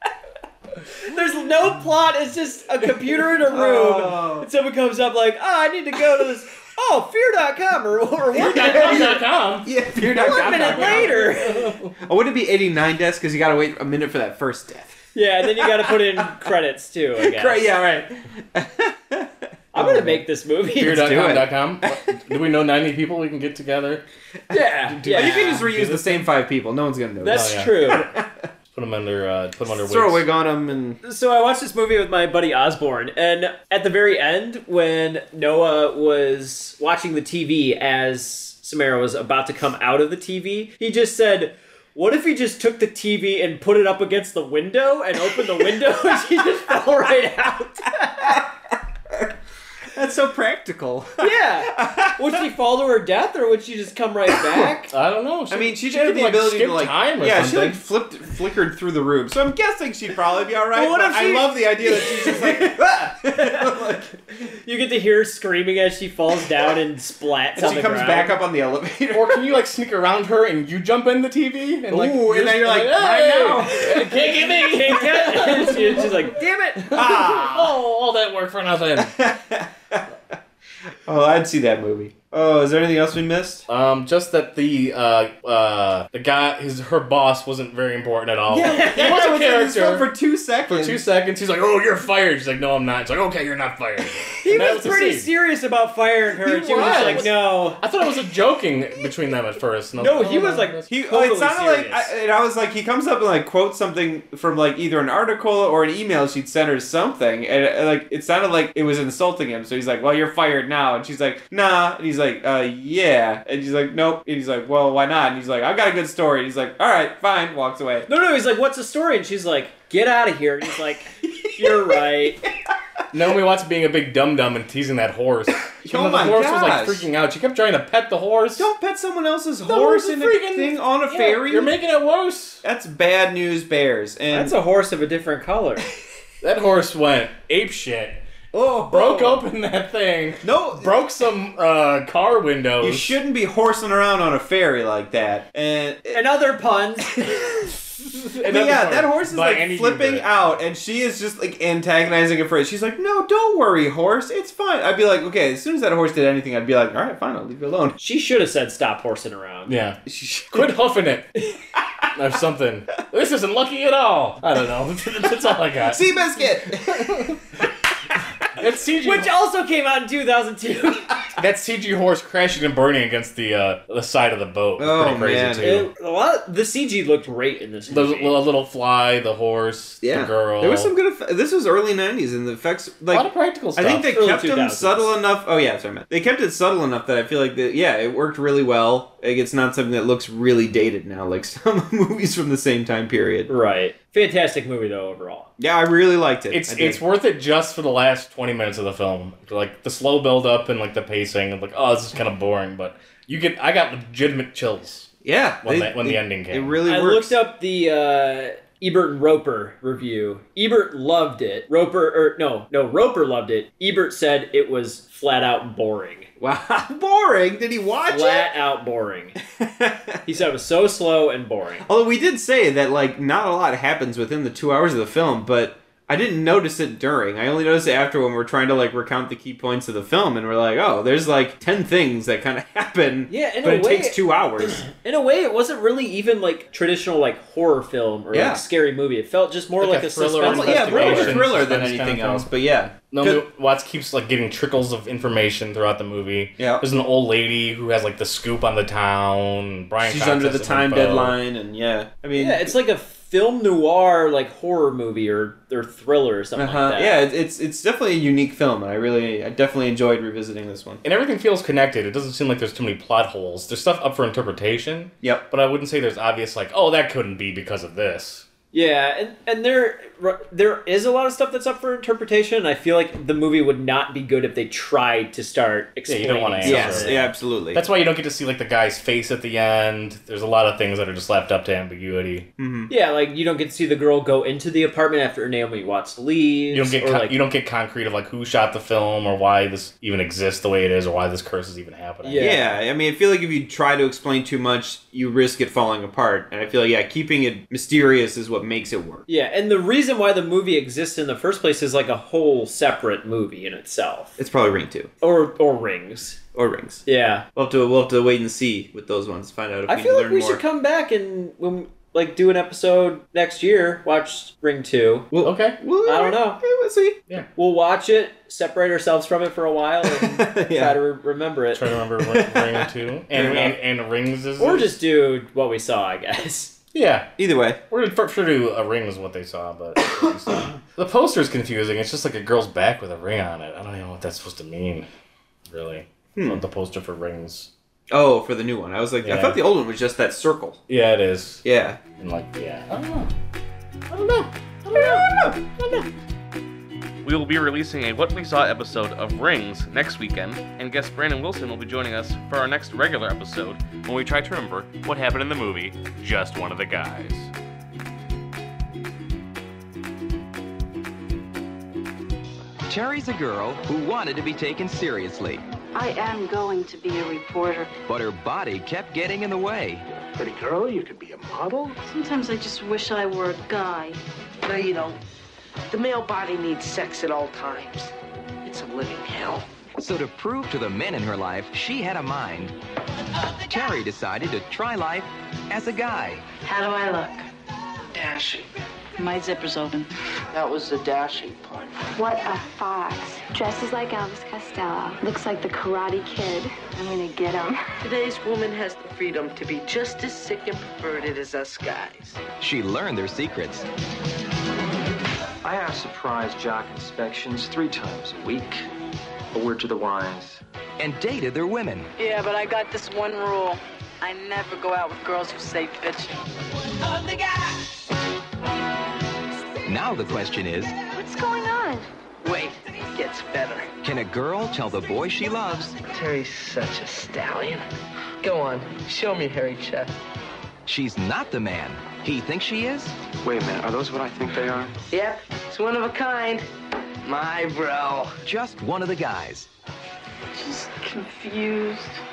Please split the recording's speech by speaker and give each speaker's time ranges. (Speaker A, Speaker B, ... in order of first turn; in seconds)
Speaker A: 1.0-9.2, 10.0-11.8, 15.1-17.7, 19.7-21.1, 24.5-25.6, 27.2-28.1, 31.0-48.5, 51.2-54.9, 60.7-62.8, 63.3-63.9, 64.5-68.4, 74.5-76.8, 88.5-89.1, 94.4-97.8, 100.0-102.1, 118.1-122.4, 134.3-135.8, 146.1-147.2, 158.0-159.7, 169.0-171.2, 175.6-178.3, 184.1-185.1, 193.5-195.5, 206.9-216.3, 218.1-219.3, 220.2-221.8, 233.3-241.4, 252.3-257.2, 268.7-277.3, 282.9-287.4, 292.2-292.6, 299.3-304.4, 305.2-306.4, 307.1-307.4, 309.9-315.3, 316.1-316.6, 317.6-321.8, 324.6-326.8
Speaker B: 3.5-4.5, 8.4-11.3, 12.0-15.0, 15.6-16.4, 17.2-20.2, 20.8-22.1, 25.1-28.4, 29.7-31.0, 49.9-52.4, 55.5-64.1, 67.6-69.5, 71.9-74.1, 76.9-77.7, 79.0-80.1, 81.0-83.7, 88.8-91.1, 96.6-97.3, 100.9-118.1, 121.4-121.8, 125.7-127.1, 128.6-131.8, 132.6-134.5, 138.5-139.4, 140.4-140.9, 142.8-146.2, 147.2-147.7, 148.4-157.9, 160.1-160.7, 165.9-167.3, 174.8-175.8, 180.0-193.5, 195.6-197.0, 205.2-207.3, 216.4-218.5, 219.6-220.2, 221.8-234.8, 238.3-238.6, 240.4-243.4, 246.6-246.8, 250.0-252.8, 256.6-261.0, 276.6-277.8, 282.6-282.9, 292.4-299.2, 304.4-305.1, 306.5-307.0, 307.5-310.6, 315.3-317.2, 320.1-320.9, 322.2-323.7, 327.4-327.8, 336.4-336.6, 338.1-340.8, 341.6-342.0, 344.9-345.6
Speaker C: 8.3-9.7, 10.6-11.9, 20.8-24.0, 24.9-26.3, 27.2-28.1, 28.7-30.2, 54.9-57.8, 69.1-79.1, 83.7-90.1, 90.7-95.3, 96.4-100.8, 123.1-128.7, 129.6-132.6, 136.4-138.2, 138.8-143.2, 148.2-150.3, 159.7-160.0, 160.5-161.3, 162.1-167.4, 168.5-169.3, 171.4-175.9, 177.9-180.9, 183.1-184.1, 196.5-205.1, 205.6-206.8, 239.8-242.5, 243.1-251.4, 261.0-268.4, 276.1-282.5, 286.7-292.6, 315.4-315.8, 321.7-325.0, 326.9-327.3, 327.9-335.1, 335.7-337.7, 339.2-339.6, 340.9-341.6, 342.2-343.3, 344.1-346.1
Speaker D: 347.2-357.5
Speaker E: 362.9-365.6, 368.1-370.0, 380.0-382.7, 383.7-386.4, 402.6-403.9, 411.0-412.1, 419.8-420.9, 424.0-426.0, 430.9-433.1, 438.4-439.7
Speaker F: 365.9-367.9, 372.0-374.2, 386.6-387.5, 389.2-390.1, 412.2-416.4, 421.1-422.1, 440.6-442.2
Speaker G: 370.4-371.9, 405.6-408.8, 409.5-410.6, 433.4-434.9
Speaker H: 370.6-370.9, 374.6-375.2, 375.9-379.7, 388.1-388.7, 390.5-392.0, 398.0-402.4, 422.4-423.9, 426.1-427.8, 428.4-430.1, 435.1-436.6, 437.2-438.4
Speaker I: 392.1-397.8